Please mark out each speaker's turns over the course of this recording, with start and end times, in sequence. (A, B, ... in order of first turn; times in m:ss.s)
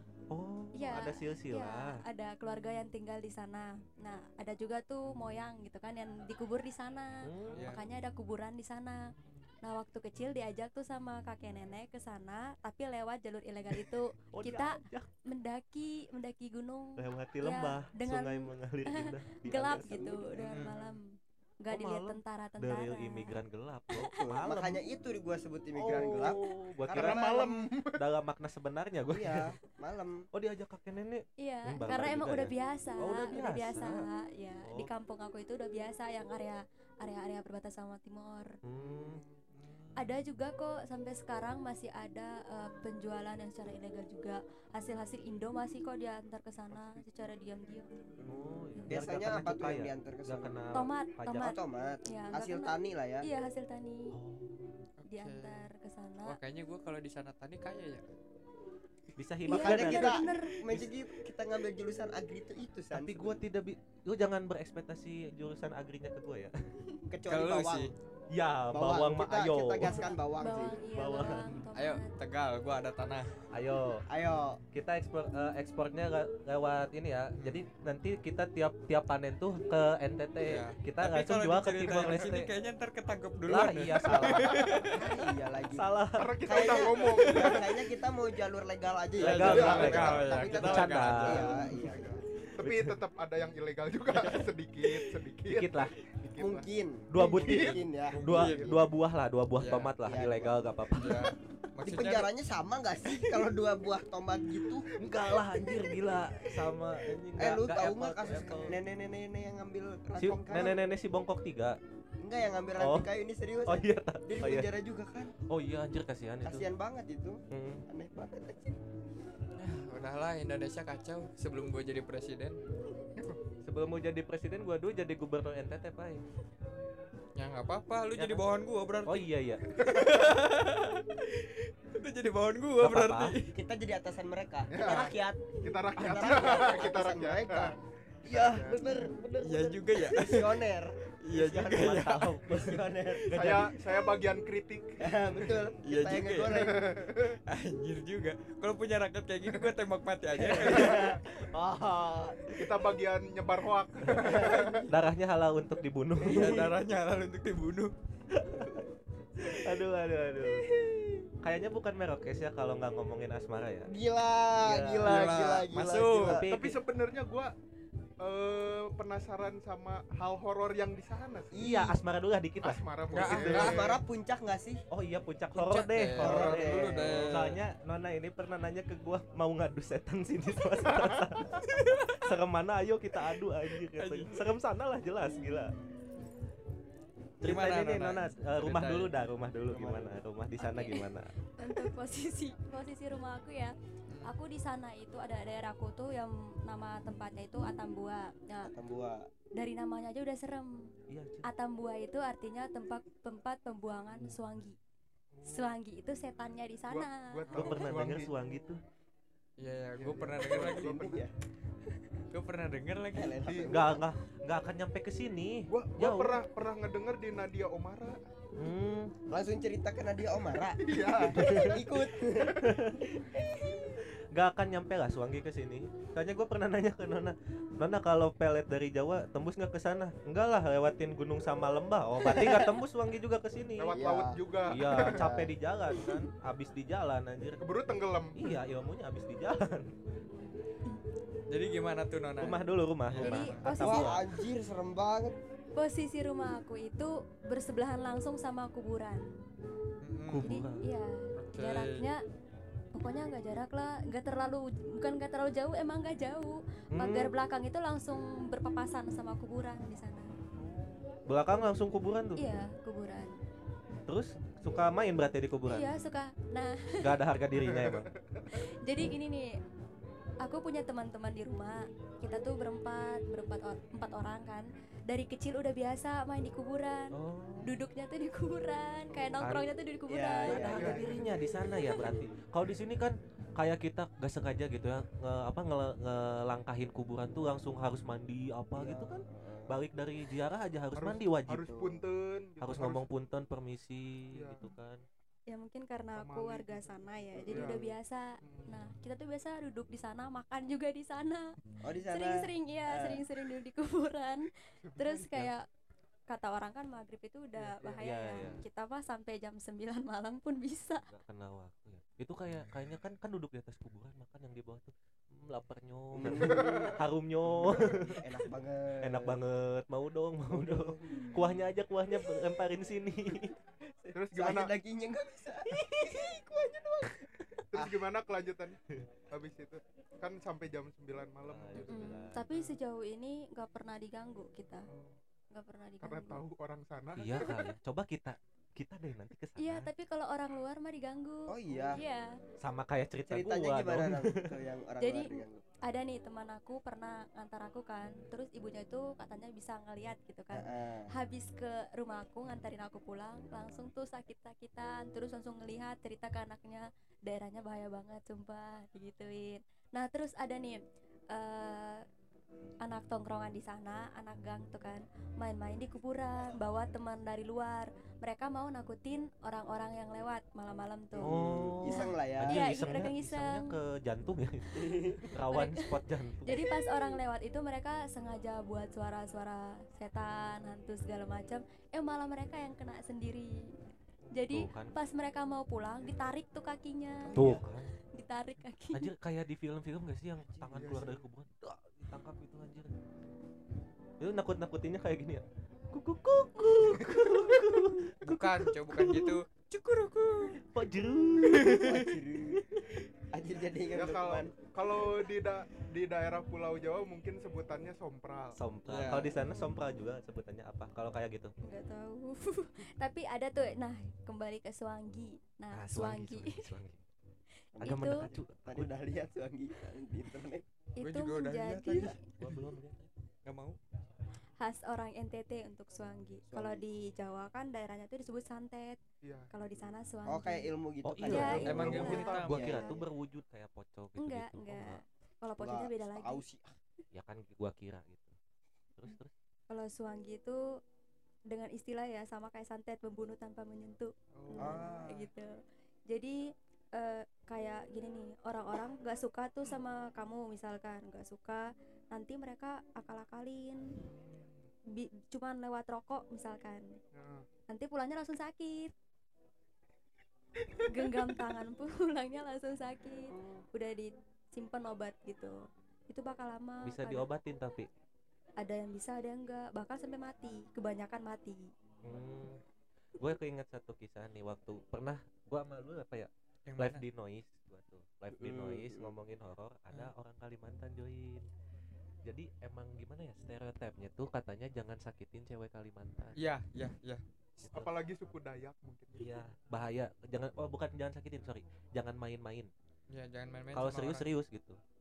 0:00.3-0:02.0 A
0:00.7-0:23.4 B
0:07.2-0:07.8 A
0:07.5-0:07.8 C
0:14.3-0:15.1 A
0:17.0-0:20.2 A
0:19.9-0:20.6 D
0:20.5-0:21.0 C
0:21.7-0:24.8 A
0:23.9-0:24.4 B
0:24.0-0:27.7 D
0:25.8-0:27.3 A
0:25.9-0:26.3 E
0:26.9-0:28.0 E
0:27.9-0:29.5 A
0:29.1-0:30.3 D
0:30.3-0:34.1 A
0:31.4-0:38.6 B
0:34.6-0:34.9 A
0:38.6-0:39.2 A
0:39.1-0:39.4 E
0:39.5-0:40.1 C
0:40.0-0:47.9 B
0:46.7-0:47.1 E
0:48.2-0:50.7 D
0:48.3-0:51.6 A
0:50.7-0:54.2 B
0:51.4-0:53.3 D
0:54.1-0:54.8 A
0:55.0-0:55.7 C
0:55.1-0:56.4 B
0:56.3-0:58.0 C
0:59.2-1:01.0 A
0:59.5-1:00.6 B
0:59.5-1:03.4 D
1:02.9-1:06.5 A
1:07.1-1:07.9 D
1:07.3-1:07.9 C
1:08.3-1:10.1 A
1:08.7-1:10.8 D
1:10.4-1:12.1 B
1:10.9-1:11.7 A
1:11.8-1:13.4 C
1:13.5-1:14.0 A
1:14.1-1:14.6 D
1:14.7-1:22.5 A
1:17.4-1:17.6 C
1:20.4-1:25.0 C
1:23.5-1:25.0 A
1:24.5-1:24.8 E
1:24.9-1:25.9 D
1:25.7-1:27.6 A
1:26.1-1:27.8 E
1:26.4-1:32.2 D
1:29.2-1:31.7 C
1:29.2-1:31.8 A
1:29.4-1:30.1 E
1:31.7-1:38.7 E
1:32.6-1:33.0 A
1:34.1-1:34.4 C
1:35.5-1:36.0 A
1:36.4-1:38.8 D
1:37.1-1:41.4 A
1:38.1-1:38.7 C
1:39.6-1:39.9 C
1:40.0-1:40.6 D
1:41.0-1:42.3 C
1:41.8-1:44.9 D
1:45.0-1:48.8 A
1:45.6-1:46.2 D
1:47.4-1:50.8 D
1:50.2-1:51.8 A
1:52.2-1:55.3 D
1:52.8-1:53.1 A
1:53.7-1:54.7 A
1:55.5-1:56.7 A
1:56.4-1:58.8 D
1:57.5-1:57.8 A
1:59.6-2:02.6 C
2:03.6-2:06.2 A
2:07.4-2:13.5 C
2:08.1-2:08.5 A
2:09.0-2:09.8 A
2:09.8-2:10.1 E
2:12.8-2:13.4 A
2:13.5-2:17.8 D
2:14.7-2:17.8 E
2:18.3-2:19.1 D
2:18.3-2:20.4 A
2:18.3-2:18.8 E
2:19.4-2:20.6 C
2:20.0-2:24.0 D
2:21.2-2:22.4 C
2:21.7-2:23.8 A
2:23.3-2:25.4 E
2:25.0-2:27.0 D
2:25.4-2:25.9 A
2:25.8-2:26.8 C
2:26.6-2:27.4 E
2:27.5-2:31.0 C
2:30.4-2:31.3 D
2:30.6-2:32.5 A
2:30.8-2:31.1 E
2:32.5-2:34.9 E
2:34.0-2:36.7 A
2:34.2-2:34.9 D
2:36.2-2:36.7 D
2:36.2-2:37.9 C
2:38.3-2:38.8 A
2:38.5-2:39.0 D
2:39.4-2:40.7 A
2:40.4-2:41.3 D
2:41.4-2:43.9 A
2:43.9-2:46.5 D
2:44.6-2:45.5 A
2:45.0-2:46.4 C
2:46.2-2:46.8 A
2:46.5-2:47.5 E
2:48.2-2:51.5 E
2:51.5-2:52.0 D
2:51.5-2:53.8 A
2:52.6-2:53.9 E
2:53.1-2:54.0 C
2:53.4-2:54.8 D
2:54.9-3:05.7 A
2:55.6-2:57.6 C
2:56.2-2:57.3 D
3:00.9-3:01.3 E
3:01.5-3:02.2 C
3:04.0-3:04.4 C
3:07.4-3:11.3 A
3:07.4-3:09.1 C
3:09.7-3:10.2 D
3:10.6-3:18.7 B
3:14.1-3:14.4 C
3:18.6-3:19.3 D
3:19.6-3:20.9 B
3:21.1-3:21.5 A
3:21.4-3:24.8 B
3:25.3-3:25.8 E
3:25.4-3:27.5 B
3:26.9-3:28.4 E
3:27.5-3:28.8 A
3:29.6-3:31.0 C
3:30.0-3:31.3 E
3:30.4-3:31.3 D
3:32.3-3:33.4 C
3:33.1-3:34.1 D
3:33.4-3:33.9 E
3:33.7-3:36.5 A
3:35.7-3:38.2 E
3:38.6-3:39.1 A
3:39.3-3:44.0 D
3:40.8-3:41.8 E
3:41.3-3:41.8 A
3:42.5-3:43.1 A
3:44.3-3:54.0 A
3:52.2-3:52.8 D
3:53.8-3:55.2 E
3:53.8-3:56.2 D
3:54.7-3:57.6 A
3:57.6-3:58.4 E
3:58.4-3:59.9 A
4:01.5-4:03.7 C
4:02.4-4:04.3 A
4:03.2-4:04.2 B
4:03.8-4:05.4 D
4:05.8-4:09.3 B
4:10.0-4:10.5 C
4:10.3-4:10.9 A
4:10.4-4:12.2 B
4:11.4-4:12.1 C
4:12.9-4:20.3 B
4:16.9-4:17.3 A
4:21.3-4:22.4 A
4:22.4-4:23.4 B
4:24.1-4:25.9 A
4:25.7-4:27.2 B
4:27.0-4:28.1 A
4:27.7-4:28.4 E
4:28.5-4:29.5 B
4:30.4-4:41.2 B
4:37.1-4:37.8 A
4:39.4-4:39.7 A
4:40.1-4:41.3 D
4:40.5-4:51.8 A
4:40.6-4:41.0 E
4:41.9-4:42.3 D
4:48.8-4:49.8 D
4:51.0-4:53.1 E
4:51.5-4:52.0 D
4:52.6-4:55.0 A
4:54.3-4:54.7 E
4:55.5-5:05.7 B
4:56.2-4:57.9 E
4:57.4-4:57.9 D
4:58.4-4:58.8 E
5:01.8-5:03.3 D
5:04.8-5:05.4 E
5:06.3-5:11.1 B
5:07.6-5:08.0 E
5:08.0-5:08.7 A
5:11.1-5:18.3 A
5:16.1-5:17.0 D
5:16.3-5:17.0 E
5:17.6-5:19.4 D
5:19.0-5:23.6 A
5:20.5-5:21.6 D
5:24.0-5:28.0 D
5:24.1-5:24.7 E
5:27.7-5:28.8 E
5:29.3-5:32.0 E
5:31.4-5:32.5 A
5:31.8-5:34.9 B
5:34.9-5:35.2 E
5:35.5-5:36.4 B
5:36.0-5:37.4 E
5:37.2-5:39.9 A
5:37.4-5:37.7 B
5:39.6-5:42.4 B
5:41.5-5:42.0 D
5:42.6-5:44.6 A
5:43.3-5:45.6 D
5:45.0-6:00.8 B
5:50.5-5:51.1 D
6:01.3-6:02.0 B
6:02.8-6:13.7 B
6:11.1-6:13.0 D
6:11.2-6:16.6 A
6:14.8-6:15.3 D
6:15.5-6:23.7 B
6:16.5-6:17.1 D
6:24.3-6:29.1 B
6:24.5-6:24.9 A
6:27.2-6:27.6 D
6:27.4-6:27.9 A
6:28.9-6:32.9 A
6:30.7-6:31.2 E
6:34.2-6:39.4 A
6:38.2-6:40.6 C
6:40.6-6:42.9 A
6:41.4-6:42.0 C
6:41.7-6:42.6 D
6:43.3-6:44.6 D
6:43.9-6:48.6 E
6:48.6-6:51.5 A
6:48.9-6:49.3 C
6:49.4-6:49.8 B
6:51.6-6:56.7 B
6:55.7-6:57.0 A
6:57.8-7:00.6 D
6:57.8-6:58.3 B
6:57.8-6:59.0 A
7:01.0-7:02.3 B
7:01.0-7:02.2 C
7:02.4-7:03.1 A
7:03.4-7:03.8 C
7:04.6-7:09.0 B
7:06.5-7:06.8 D
7:09.2-7:09.5 E
7:09.5-7:10.7 B
7:10.3-7:13.1 D
7:11.0-7:15.0 A
7:11.2-7:12.8 B
7:11.6-7:12.8 C
7:14.2-7:16.4 B
7:15.6-7:16.8 D
7:17.1-7:18.3 A
7:19.0-7:19.3 A
7:19.7-7:20.6 B
7:21.5-7:25.6 B
7:24.4-7:24.9 E
7:24.6-7:25.3 D
7:26.1-7:34.0 B
7:34.1-7:34.5 E
7:34.9-7:37.0 B
7:37.1-7:37.5 E
7:37.7-7:38.9 B
7:40.8-7:47.3 B
7:43.3-7:43.6 D
7:46.8-7:47.9 A
7:48.6-7:51.7 B
7:52.0-7:52.6 A
7:53.2-8:01.5 A
7:56.7-7:57.0 C
7:58.3-7:59.1 D
8:02.2-8:06.4 A
8:06.4-8:07.9 C
8:07.7-8:09.4 E
8:09.2-8:12.7 A
8:13.1-8:14.3 C
8:13.7-8:14.8 A